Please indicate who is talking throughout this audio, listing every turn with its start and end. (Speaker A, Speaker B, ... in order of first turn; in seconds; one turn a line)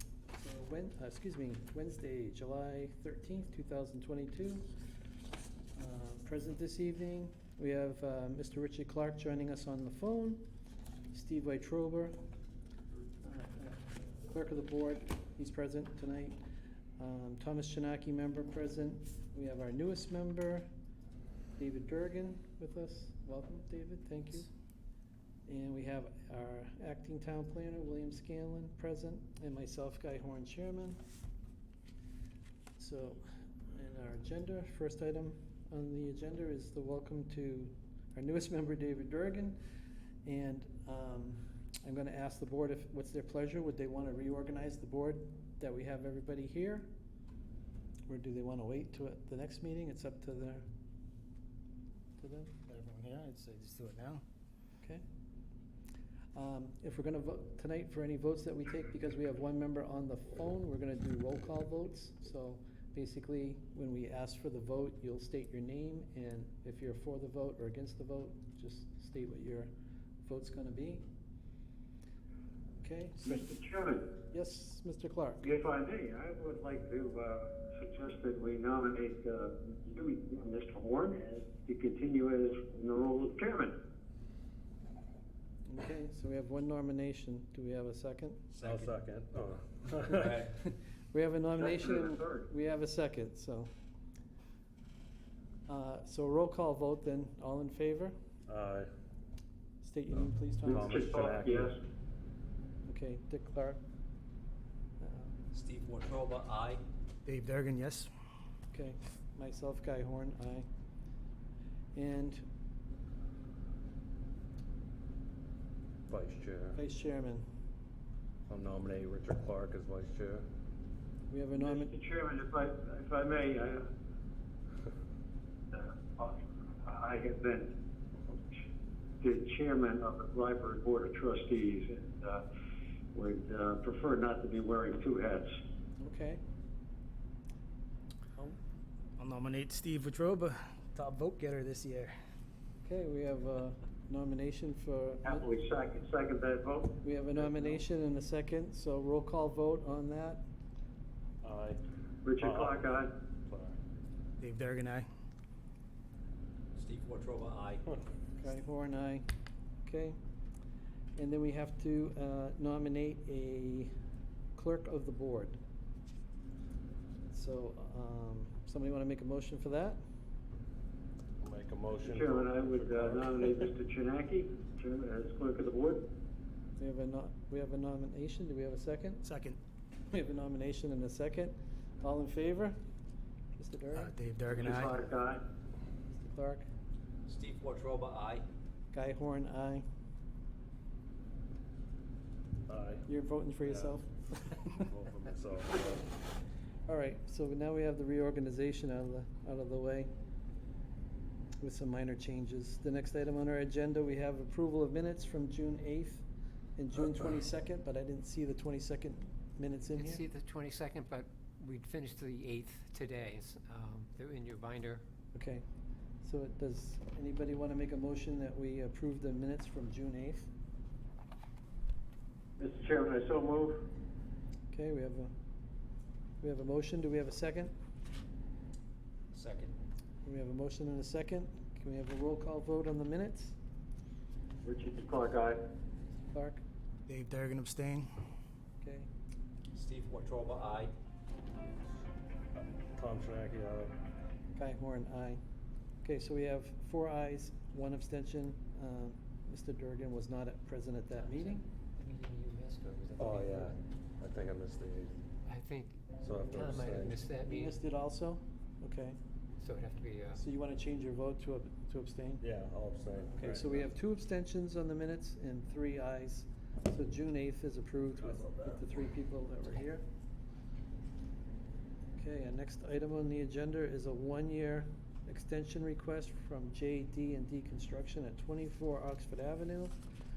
Speaker A: 0.3-4.7
Speaker A: 5.8-10.5
Speaker A: 11.1-12.2
Speaker A: 13.2-16.4
Speaker A: 17.0-20.7
Speaker A: 21.6-24.5
Speaker A: 25.5-31.0
Speaker A: 32.8-39.6
Speaker A: 40.2-46.9
Speaker A: 48.1-50.7
Speaker A: 52.2-52.6
Speaker B: 52.7-54.2
Speaker A: 56.4-69.7
Speaker A: 70.2-71.0
Speaker A: 72.8-73.5
Speaker C: 73.3-74.1
Speaker A: 74.3-75.5
Speaker C: 75.4-83.8
Speaker A: 85.7-88.4
Speaker D: 88.5-88.9
Speaker E: 88.6-90.4
Speaker D: 90.0-90.6
Speaker A: 91.1-93.7
Speaker C: 91.6-92.5
Speaker A: 95.7-98.2
Speaker E: 98.5-98.9
Speaker A: 99.8-101.1
Speaker E: 100.7-101.7
Speaker C: 100.7-101.7
Speaker A: 102.9-103.8
Speaker A: 105.0-105.4
Speaker D: 105.5-106.8
Speaker B: 107.3-108.1
Speaker A: 108.7-110.7
Speaker A: 112.0-112.5
Speaker E: 116.1-116.8
Speaker A: 116.8-117.5
Speaker E: 118.5-120.5
Speaker A: 121.3-121.9
Speaker C: 121.6-123.9
Speaker C: 125.7-127.7
Speaker C: 129.2-132.4
Speaker C: 133.1-135.5
Speaker A: 136.0-136.4
Speaker B: 139.2-142.2
Speaker A: 142.8-145.5
Speaker C: 145.2-146.9
Speaker A: 147.0-150.4
Speaker E: 151.4-151.8
Speaker C: 152.2-153.1
Speaker E: 152.4-153.8
Speaker B: 154.4-155.1
Speaker D: 156.8-157.8
Speaker A: 158.4-159.3
Speaker A: 159.8-160.2
Speaker A: 161.2-163.9
Speaker A: 164.6-165.6
Speaker A: 167.3-170.0
Speaker E: 171.4-173.7
Speaker C: 172.0-176.1
Speaker A: 176.8-179.2
Speaker B: 179.2-179.6
Speaker A: 180.1-182.8
Speaker A: 183.6-184.1
Speaker B: 183.9-185.0
Speaker C: 184.5-185.4
Speaker A: 186.1-186.7
Speaker D: 187.3-188.4
Speaker A: 188.9-189.8
Speaker E: 192.7-193.1
Speaker A: 193.1-194.9
Speaker E: 193.7-194.0
Speaker E: 194.8-196.0
Speaker A: 196.9-200.1
Speaker A: 201.6-206.2
Speaker A: 206.8-210.2
Speaker F: 209.9-215.0
Speaker A: 215.3-215.6
Speaker A: 216.2-220.5
Speaker C: 222.6-223.8
Speaker A: 224.7-225.3
Speaker A: 226.4-227.7
Speaker D: 229.3-229.7
Speaker A: 230.2-233.6
Speaker C: 234.6-235.6
Speaker A: 236.3-236.6
Speaker B: 237.1-238.1
Speaker A: 238.8-239.1
Speaker D: 239.7-240.9
Speaker E: 242.9-243.9
Speaker A: 244.6-245.4
Speaker A: 246.0-251.7
Speaker F: 251.1-253.7
Speaker E: 253.2-255.2
Speaker F: 255.4-257.8
Speaker E: 256.2-257.2
Speaker A: 257.4-259.2
Speaker F: 259.6-260.4
Speaker A: 260.4-262.4
Speaker E: 262.4-263.9
Speaker A: 263.4-270.1
Speaker E: 268.2-268.8
Speaker A: 272.2-279.9